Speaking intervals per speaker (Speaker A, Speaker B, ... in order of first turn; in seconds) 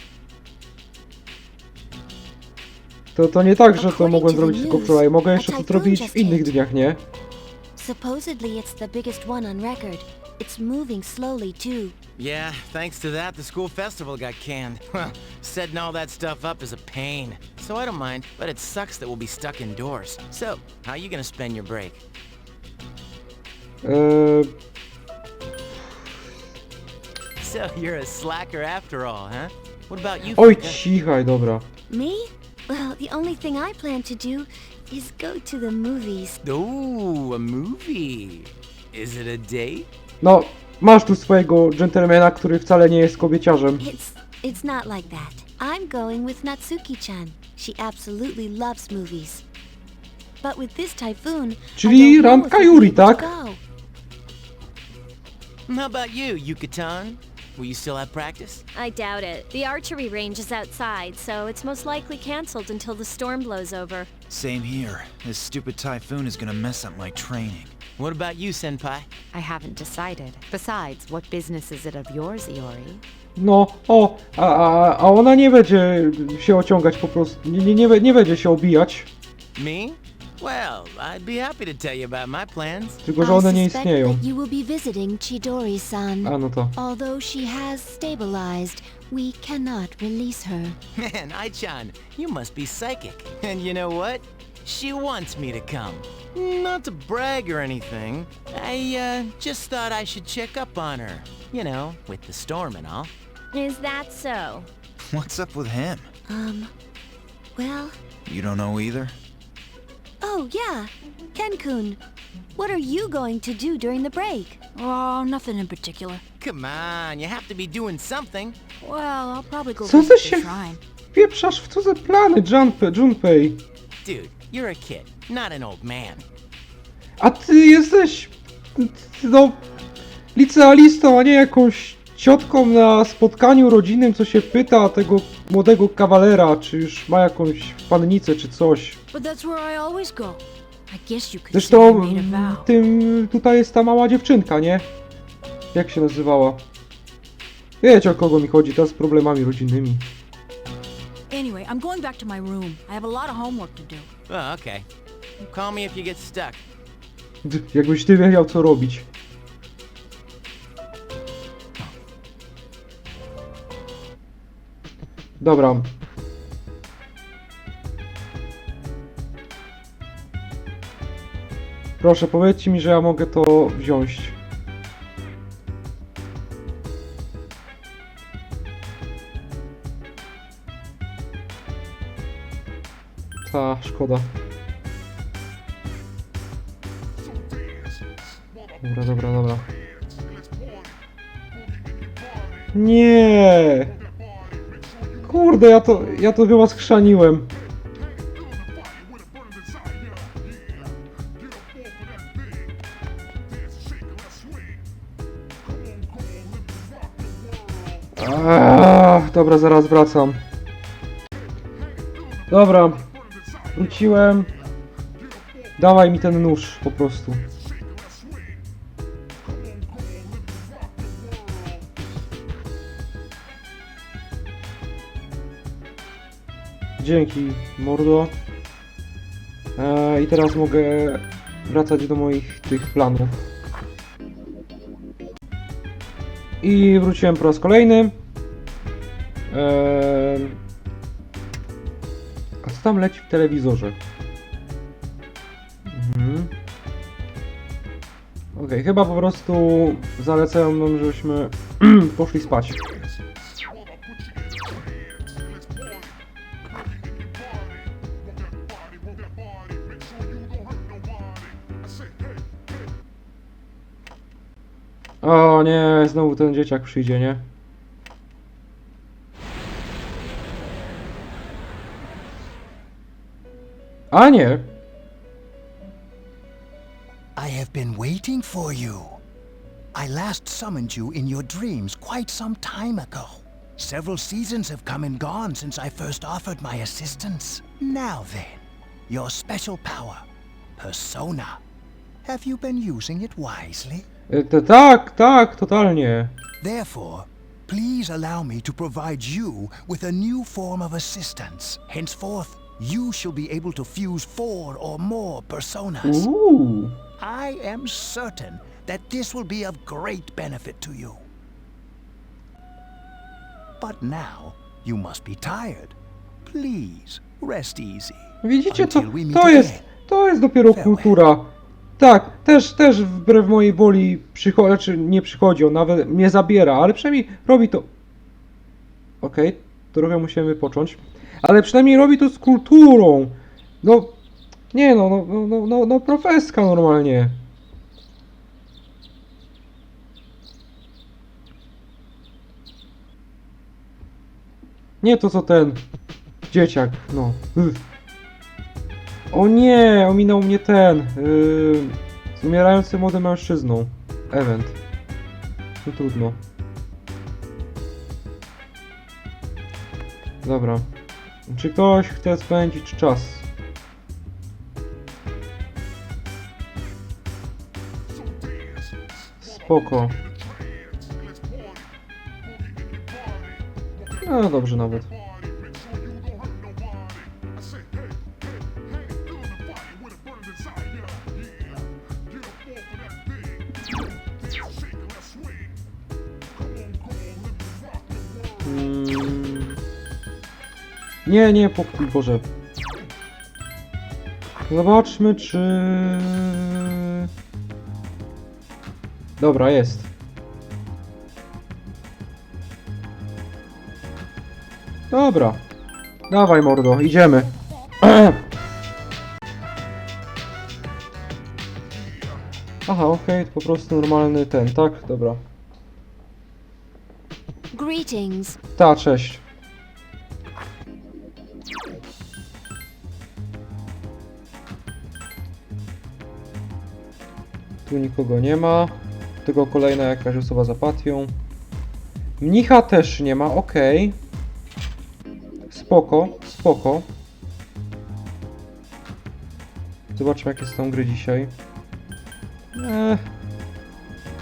Speaker A: 3.1-7.0, 23.8-24.5, 30.3-31.6, 40.2-43.8, 51.8-53.3, 73.3-79.1, 83.0-84.2, 86.2-86.7, 119.8-123.6, 127.2-129.6, 130.3-139.0, 141.5-144.9, 145.7-146.7, 147.8-150.1, 157.4-159.1, 165.4-165.9, 172.0-174.3, 183.4-184.3, 188.8-189.7, 192.7-193.9, 195.2-197.5, 208.2-210.4, 212.5-213.1, 213.7-214.5, 215.8-217.5, 227.0-228.3, 229.8-233.4, 236.6-238.1, 239.5-240.6, 242.6-244.0, 245.8-246.5, 248.5-252.9, 265.2-267.4, 274.1-274.7, 294.3-296.3, 306.0-307.0, 318.4-327.9, 329.2-334.1, 334.7-337.4, 345.0-345.8, 346.5-347.8, 349.3-354.8, 355.8-356.4, 360.4-360.9, 361.5-363.5, 369.4-370.2, 374.1-375.1, 388.6-389.8, 391.2-392.5, 394.7-397.3, 399.4-400.1, 405.1-405.6, 406.3-407.5, 408.0-408.4, 412.9-415.4, 418.8-419.4, 427.9-431.4, 432.4-434.2, 435.7-437.1, 440.1-441.5, 442.7-443.2
Speaker B: 3.7-6.5, 7.8-11.9, 31.9-36.4, 43.8-49.4, 50.4-53.6, 83.2-90.8, 106.3-106.7, 107.5-107.9, 110.2-112.0, 112.5-114.6, 417.7-418.6
Speaker C: 12.2-22.0, 27.4-30.8, 36.4-39.9, 55.7-58.6, 68.0-69.1, 79.5-83.0, 91.0-103.1, 116.4-118.6, 124.0-126.2, 154.3-154.8, 155.4-156.6
Speaker D: 58.7-64.1, 103.5-104.7
Speaker E: 64.3-67.8, 105.0-106.1, 108.2-109.2
Speaker F: 69.3-73.0
Speaker G: 114.7-116.2, 118.8-120.8, 139.1-142.7, 151.3-154.1
Speaker H: 277.4-279.2, 279.9-290.2, 290.8-291.6, 292.2-294.1, 296.6-306.3, 307.2-311.2, 313.8-319.9, 320.7-321.2